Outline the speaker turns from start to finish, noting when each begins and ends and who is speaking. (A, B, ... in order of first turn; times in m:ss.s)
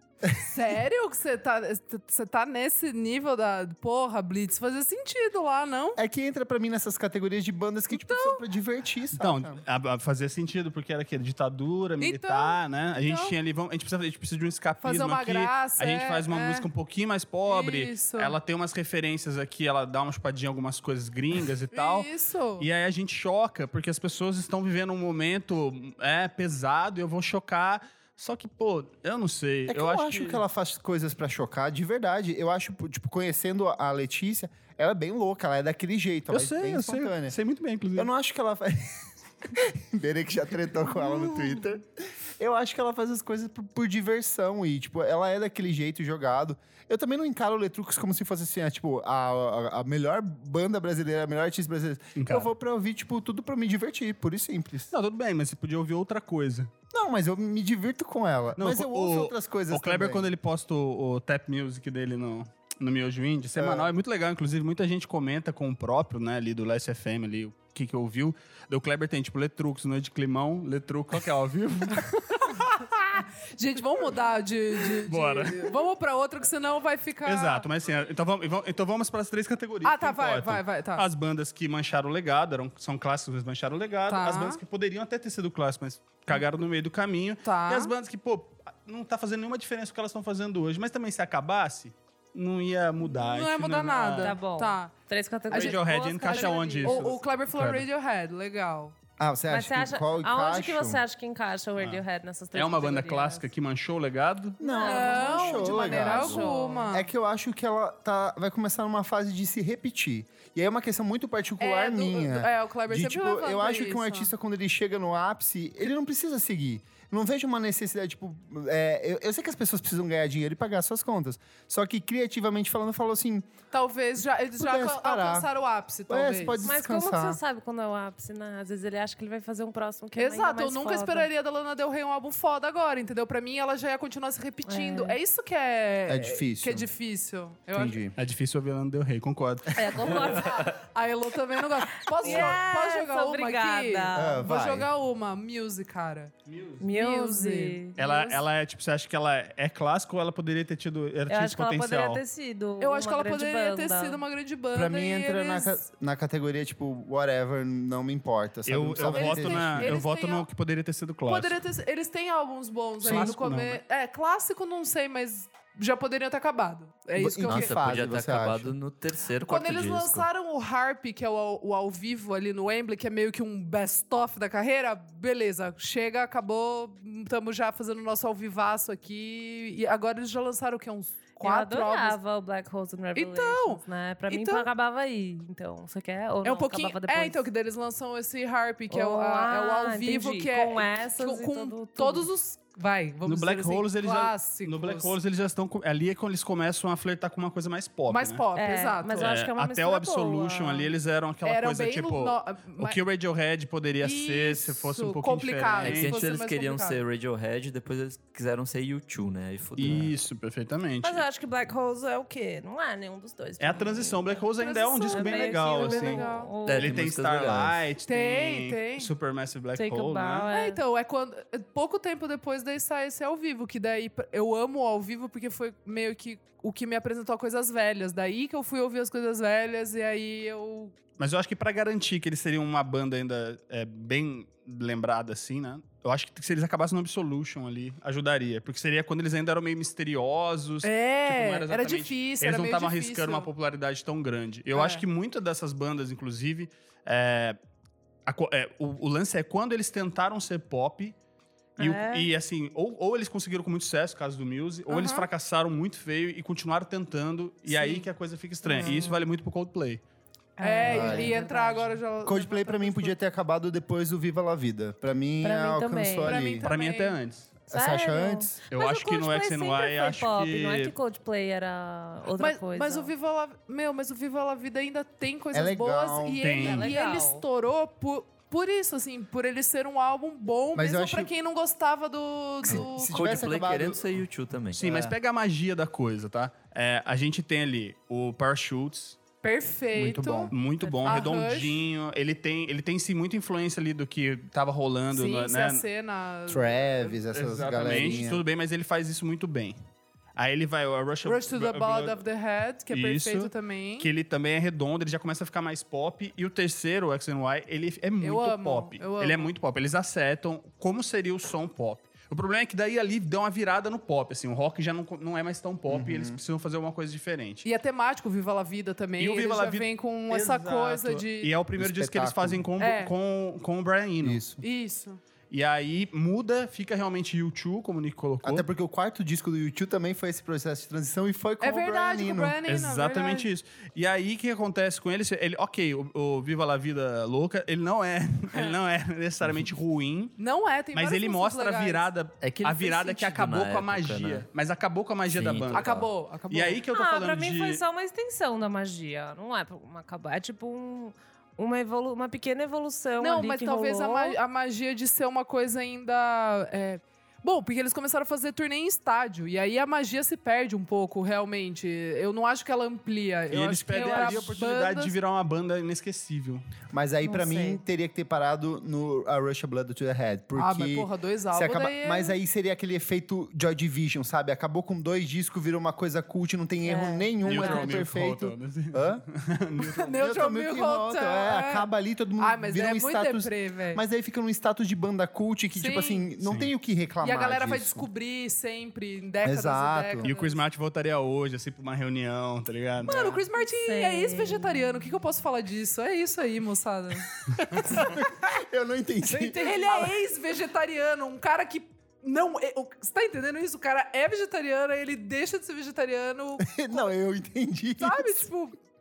0:00.5-0:06.0 A
0:06.0-0:09.6 B
0:07.9-0:08.4 A
0:09.1-0:30.4 C
0:12.0-0:13.3 A
0:14.8-0:16.7 A
0:17.4-0:18.4 A
0:21.7-0:22.7 A
0:29.7-0:37.3 B
0:36.3-0:38.1 C
0:38.0-0:54.9 B
0:52.2-0:52.5 C
0:54.9-0:56.7 C
0:56.9-1:00.3 B
0:58.6-1:13.2 C
1:03.6-1:03.9 B
1:13.5-1:17.6 A
1:15.0-1:15.7 C
1:17.2-1:34.4 C
1:19.8-1:21.0 A
1:24.1-1:24.6 A
1:27.4-1:27.9 A
1:33.0-1:34.9 A
1:34.2-1:37.1 D
1:35.5-1:38.9 A
1:35.5-1:37.8 C
1:39.2-1:41.0 B
1:39.5-1:43.5 D
1:42.5-1:44.6 C
1:44.6-2:03.5 B
1:44.6-1:46.9 D
1:44.8-1:47.1 A
1:51.6-1:54.3 A
2:03.7-2:06.6 A
2:04.6-2:05.5 B
2:06.1-2:07.4 B
2:06.6-2:11.3 D
2:10.2-2:18.0 A
2:14.6-2:15.2 D
2:16.1-2:16.9 B
2:17.7-2:18.1 B
2:18.2-2:20.4 C
2:19.7-2:20.7 D
2:20.0-2:26.3 A
2:22.1-2:24.5 D
2:24.1-2:24.9 B
2:26.4-2:26.8 C
2:26.8-2:28.2 D
2:26.9-2:28.1 A
2:28.0-2:32.2 C
2:31.3-2:34.2 D
2:32.8-2:35.8 A
2:34.7-2:40.0 B
2:38.6-2:41.6 C
2:39.0-2:40.5 A
2:41.3-2:47.8 A
2:43.0-2:43.8 C
2:43.0-2:43.4 B
2:47.2-2:48.7 B
2:47.4-2:50.3 E
2:49.4-3:02.2 A
3:01.4-3:07.4 D
3:03.1-3:04.7 A
3:06.4-3:15.1 A
3:08.9-3:12.3 D
3:13.2-3:18.4 C
3:18.1-3:19.4 A
3:18.5-3:20.9 D
3:19.2-3:26.2 C
3:21.4-3:23.0 A
3:24.0-3:27.0 A
3:25.8-3:30.1 E
3:29.8-3:31.2 C
3:31.0-3:34.4 D
3:33.6-3:40.5 C
3:34.6-3:36.5 A
3:35.1-3:37.0 D
3:36.6-3:37.8 E
3:38.1-3:39.1 A
3:39.8-3:40.8 D
3:40.5-3:51.0 A
3:51.2-4:07.6 C
4:00.8-4:03.5 A
4:04.7-4:05.0 A
4:08.3-4:11.2 C
4:11.8-4:12.3 D
4:11.8-4:20.0 C
4:14.9-4:15.3 A
4:17.7-4:18.0 A
4:18.6-4:19.2 D
4:20.6-4:22.0 D
4:20.6-4:23.2 A
4:20.8-4:21.4 B
4:22.2-4:26.6 B
4:25.4-4:26.5 D
4:26.2-4:27.2 A
4:26.6-4:27.5 C
4:27.7-4:33.1 D
4:27.7-4:28.6 B
4:28.7-4:30.9 C
4:32.4-4:43.4 A
4:35.5-4:36.6 B
4:36.4-4:36.9 C
4:36.6-4:37.4 D
4:40.7-4:41.3 B
4:42.6-4:44.1 B
4:42.6-4:44.8 E
4:44.7-4:49.2 C
4:44.8-4:45.1 B
4:49.4-4:51.8 A
4:49.9-4:50.5 B
4:50.5-4:55.8 C
4:50.8-4:51.2 D
4:55.1-4:58.3 A
4:56.5-4:58.4 B
4:57.3-4:59.8 C
5:00.4-5:02.2 C
5:01.2-5:04.1 A
5:02.9-5:17.6 C
5:08.2-5:09.5 A
5:15.9-5:16.4 B
5:17.6-5:21.5 A
5:19.2-5:24.4 C
5:21.8-5:22.6 B
5:22.8-5:23.1 A
5:24.2-5:24.6 B
5:24.6-5:25.2 A
5:25.5-5:28.7 C
5:28.4-5:32.6 B
5:31.6-5:33.5 A
5:32.6-5:40.4 C
5:40.4-5:42.1 A
5:40.9-5:45.9 C
5:42.4-5:44.4 E
5:45.3-5:46.1 E
5:45.7-5:46.8 A
5:46.5-5:47.8 C
5:46.9-5:54.4 D
5:53.2-6:05.1 A
6:03.5-6:06.6 C
6:03.9-6:04.6 D
6:06.9-6:19.2 B
6:07.2-6:07.8 D
6:10.6-6:12.4 A
6:16.8-6:18.0 D
6:17.4-6:20.2 C
6:19.8-6:21.8 A
6:20.2-6:28.1 B
6:22.4-6:24.0 A
6:25.7-6:26.3 A
6:26.4-6:26.7 C
6:27.2-6:30.6 A
6:29.4-6:30.3 B
6:30.2-6:33.4 C
6:33.0-6:38.2 A
6:33.6-6:35.0 D
6:37.7-6:40.1 B
6:39.3-6:47.1 A
6:46.6-6:48.4 B
6:48.0-6:48.8 A